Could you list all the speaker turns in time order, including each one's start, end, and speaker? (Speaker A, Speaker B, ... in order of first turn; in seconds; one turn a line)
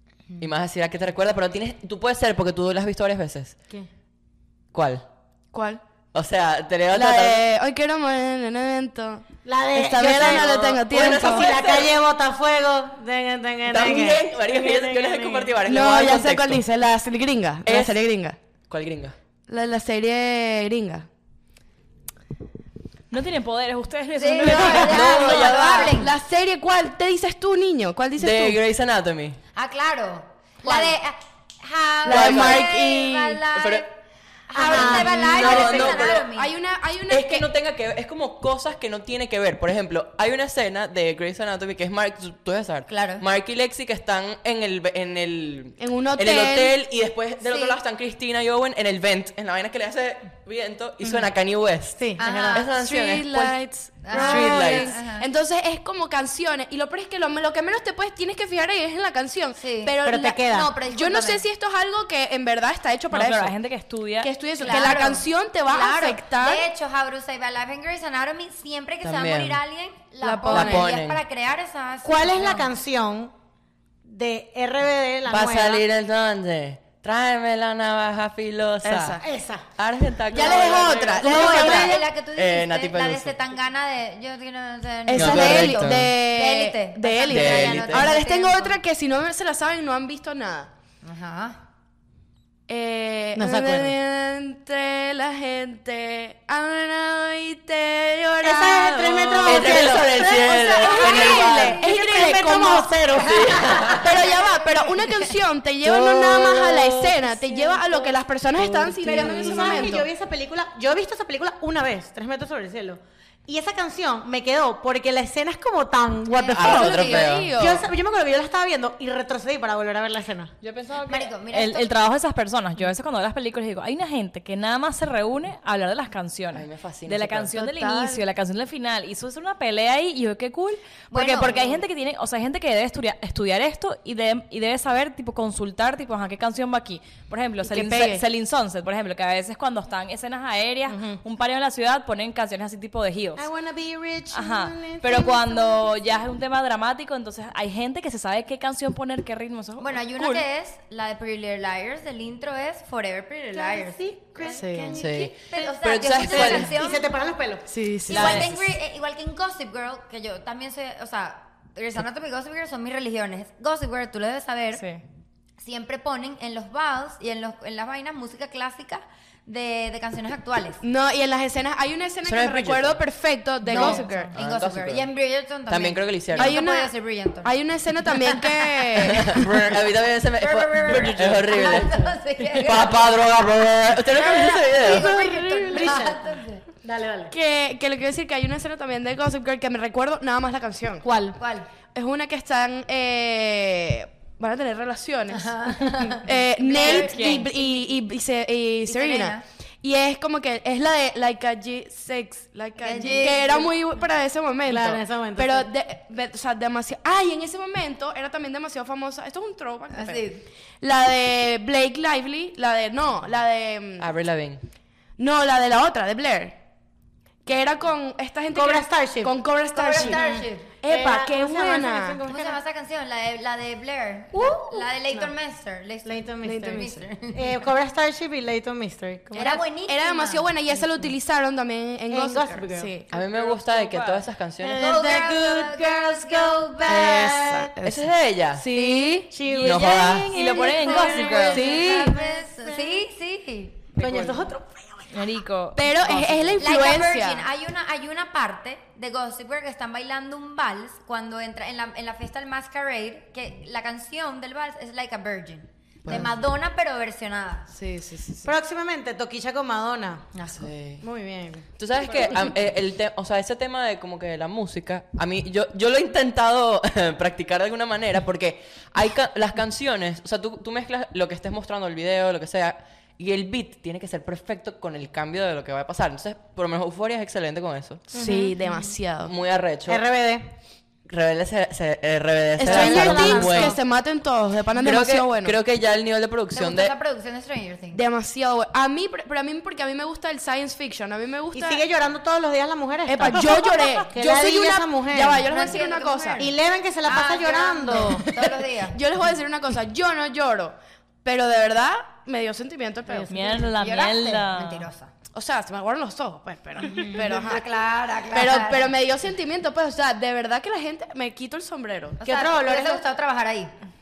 Speaker A: 0.4-3.5
Speaker A: 4.7-5.0
Speaker B: 5.5-5.8
Speaker A: 6.1-7.5
Speaker B: 6.9-11.8
Speaker C: 9.4-15.6
Speaker A: 10.0-11.9
Speaker A: 13.7-16.6
Speaker B: 15.6-18.4
Speaker A: 17.6-18.0
Speaker A: 18.7-19.1
Speaker B: 19.5-21.1
Speaker D: 23.1-25.2
Speaker E: 24.1-26.1
Speaker A: 24.5-26.0
Speaker B: 24.5-28.6
Speaker A: 28.2-29.4
Speaker E: 29.5-33.9
Speaker B: 30.6-30.9
Speaker B: 32.0-33.4
Speaker A: 32.1-32.7
Speaker A: 33.5-33.9
Speaker E: 34.5-36.5
Speaker C: 34.5-36.0
Speaker A: 34.7-36.2
Speaker B: 35.5-37.5
Speaker A: 37.1-52.0
Speaker E: 42.9-43.2
Speaker B: 45.8-46.7
Speaker E: 47.4-47.8
Speaker C: 51.9-52.6
Speaker E: 52.2-52.6
Speaker A: 52.5-53.6
Speaker B: 52.7-63.5
Speaker E: 54.0-55.3
Speaker A: 54.1-55.0
Speaker E: 59.6-60.0
Speaker C: 60.0-60.7
Speaker E: 60.5-61.4
Speaker D: 63.1-64.3
Speaker B: 64.2-66.7
Speaker E: 64.6-72.7
Speaker A: 69.0-69.6
Speaker B: 70.2-70.9
Speaker A: 70.5-71.2
Speaker C: 72.0-73.3
Speaker C: 74.0-75.8
Speaker A: 75.3-79.2
Speaker B: 78.8-79.2
Speaker C: 79.2-79.6
Speaker A: 79.8-83.3
Speaker C: 80.3-82.0
Speaker E: 80.3-88.8
Speaker B: 81.0-81.9
Speaker B: 85.0-90.7
Speaker A: 85.1-86.1
Speaker C: 87.2-88.1
Speaker A: 87.3-88.1
Speaker E: 91.0-91.6
Speaker B: 92.7-100.0
Speaker C: 93.3-93.9
Speaker C: 98.4-104.0
Speaker A: 99.3-101.8
Speaker E: 99.7-99.9
Speaker E: 100.5-101.8
Speaker B: 100.8-103.3
Speaker A: 103.1-104.1
Speaker E: 103.8-105.0
Speaker B: 103.8-110.1
Speaker A: 105.8-107.1
Speaker C: 107.4-108.1
Speaker C: 108.7-120.5
Speaker E: 109.1-110.0
Speaker E: 116.3-117.3
Speaker A: 116.5-117.5
Speaker B: 116.6-117.9
Speaker D: 120.6-143.5
Speaker E: 121.0-121.9
Speaker A: 126.5-127.5
Speaker B: 127.5-128.2
Speaker E: 131.1-131.8
Speaker B: 137.7-138.2
Speaker C: 140.9-141.2
Speaker C: 143.4-145.7
Speaker D: 144.3-150.4
Speaker E: 149.8-157.1
Speaker C: 153.5-157.7
Speaker B: 154.5-155.0
Speaker A: 154.9-156.7
Speaker B: 157.7-158.5
Speaker D: 158.1-158.7
Speaker E: 158.1-164.8
Speaker D: 164.8-165.0
Speaker E: 165.6-170.8
Speaker B: 170.8-174.3
Speaker A: 172.2-173.0
Speaker D: 173.6-174.3
Speaker E: 173.7-177.5
Speaker A: 174.3-175.1
Speaker A: 175.7-176.6
Speaker B: 176.3-176.9
Speaker B: 177.4-179.6
Speaker A: 178.9-182.0
Speaker E: 180.4-183.1
Speaker C: 181.4-182.1
Speaker A: 182.5-185.1
Speaker C: 184.1-187.3
Speaker E: 184.2-186.6
Speaker B: 184.9-186.0
Speaker B: 187.3-191.0
Speaker C: 191.0-191.4
Speaker E: 191.3-191.7
Speaker B: 191.9-210.3
Speaker E: 195.3-197.9
Speaker D: 196.8-197.5
Speaker E: 198.8-199.4
Speaker E: 202.8-203.7
Speaker C: 202.9-204.0
Speaker C: 204.6-205.7
Speaker E: 209.9-210.4
Speaker B: 210.8-214.1
Speaker A: 214.0-214.6
Speaker B: 215.2-216.6
Speaker B: 217.4-222.2
Speaker C: 218.5-219.3
Speaker E: 219.7-220.7
Speaker C: 219.9-222.6
Speaker E: 222.2-227.6
Speaker C: 224.3-225.3
Speaker C: 226.0-229.6
Speaker B: 226.4-227.0
Speaker E: 229.3-230.5
Speaker B: 229.4-233.1
Speaker C: 230.7-231.1
Speaker C: 232.1-232.9
Speaker A: 233.1-235.0
Speaker D: 233.1-234.2
Speaker C: 234.6-237.7
Speaker E: 234.8-237.4
Speaker B: 236.9-239.3
Speaker A: 237.8-238.7
Speaker C: 238.7-243.0
Speaker D: 239.4-242.1
Speaker A: 239.6-240.3
Speaker E: 240.4-243.8
Speaker B: 241.5-242.1
Speaker C: 244.0-245.2
Speaker D: 244.0-244.5
Speaker D: 245.1-246.6
Speaker B: 245.7-247.5
Speaker E: 246.6-257.7
Speaker B: 257.7-258.4
Speaker C: 258.4-260.3
Speaker E: 260.3-260.7
Speaker A: 260.5-261.1
Speaker C: 261.0-261.7
Speaker A: 261.8-278.1
Speaker B: 278.1-279.3
Speaker C: 278.1-278.9
Speaker A: 279.2-280.0
Speaker C: 279.9-280.5
Speaker A: 281.1-283.8
Speaker B: 282.6-285.6
Speaker C: 282.6-283.8
Speaker A: 284.7-286.9
Speaker E: 286.5-288.0
Speaker B: 287.9-291.8
Speaker C: 291.5-295.8
Speaker B: 293.1-296.5
Speaker E: 295.4-296.5
Speaker C: 296.4-298.6
Speaker E: 297.0-299.0
Speaker B: 298.9-303.6
Speaker C: 303.1-303.6
Speaker D: 303.3-304.9
Speaker E: 303.7-305.1
Speaker B: 305.3-307.6
Speaker E: 306.8-308.9
Speaker B: 308.3-312.2
Speaker E: 312.2-313.7
Speaker C: 312.2-313.0